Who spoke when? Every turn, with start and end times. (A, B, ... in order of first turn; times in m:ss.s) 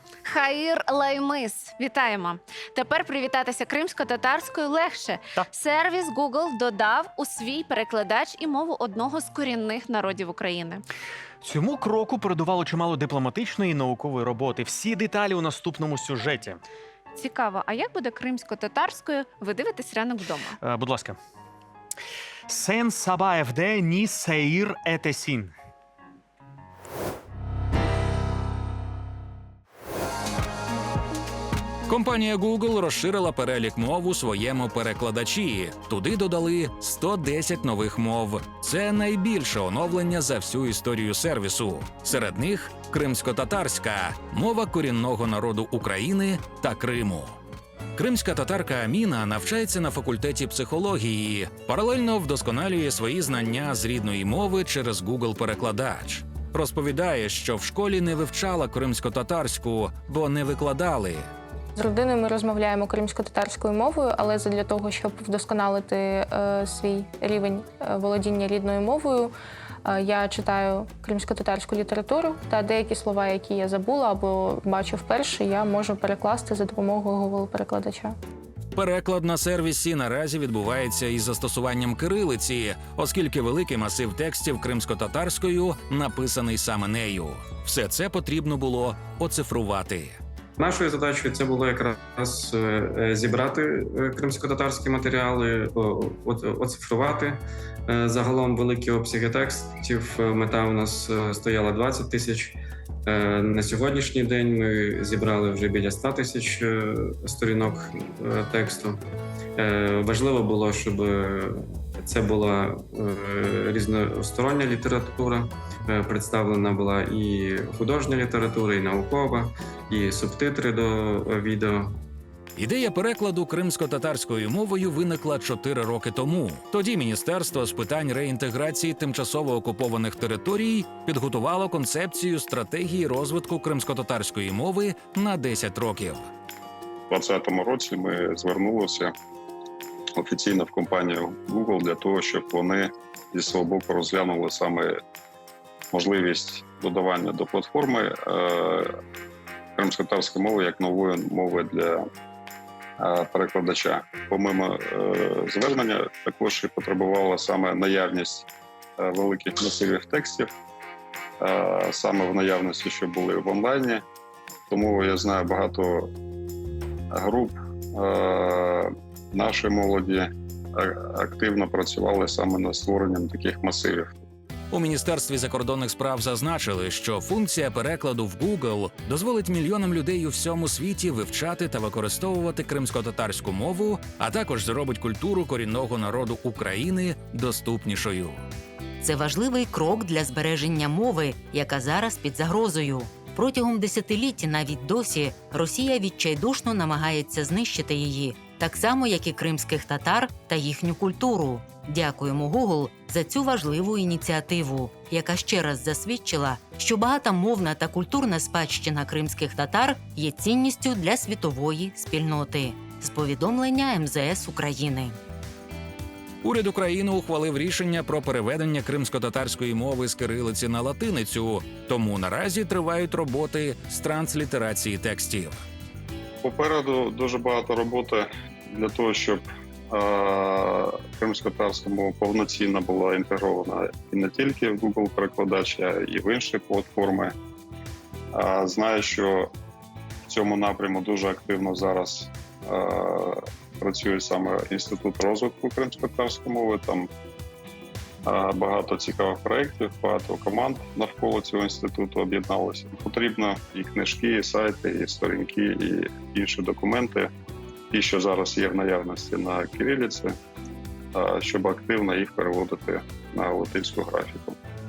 0:00.2-0:10.8 A
0:11.4-0:16.6 B
0:17.1-0:20.6 A
0:20.6-0:21.2 B
0:22.5-0:25.5 B
0:31.9-0:47.3 C
0:47.9-1:01.2 C
1:01.8-1:09.3 D
1:09.8-1:18.1 D
1:18.7-1:30.2 C
1:30.6-1:49.0 E
1:49.6-2:02.0 E
2:02.6-2:16.3 C
2:17.1-2:19.1 F
2:20.2-2:25.0 F
2:25.9-2:28.9 F
2:29.8-2:32.0 F
2:33.0-2:38.5 F
2:39.0-2:40.5 F
2:41.4-2:44.0 F
2:44.7-2:46.1 F
2:47.1-2:54.2 F
2:54.7-3:08.4 C
3:09.0-3:35.1 G
3:36.4-3:45.6 C
3:46.4-3:57.3 F
3:58.3-3:59.5 F
4:00.3-4:07.1 F
4:08.2-4:17.3 F
4:17.9-4:20.4 F
4:21.1-4:24.6 F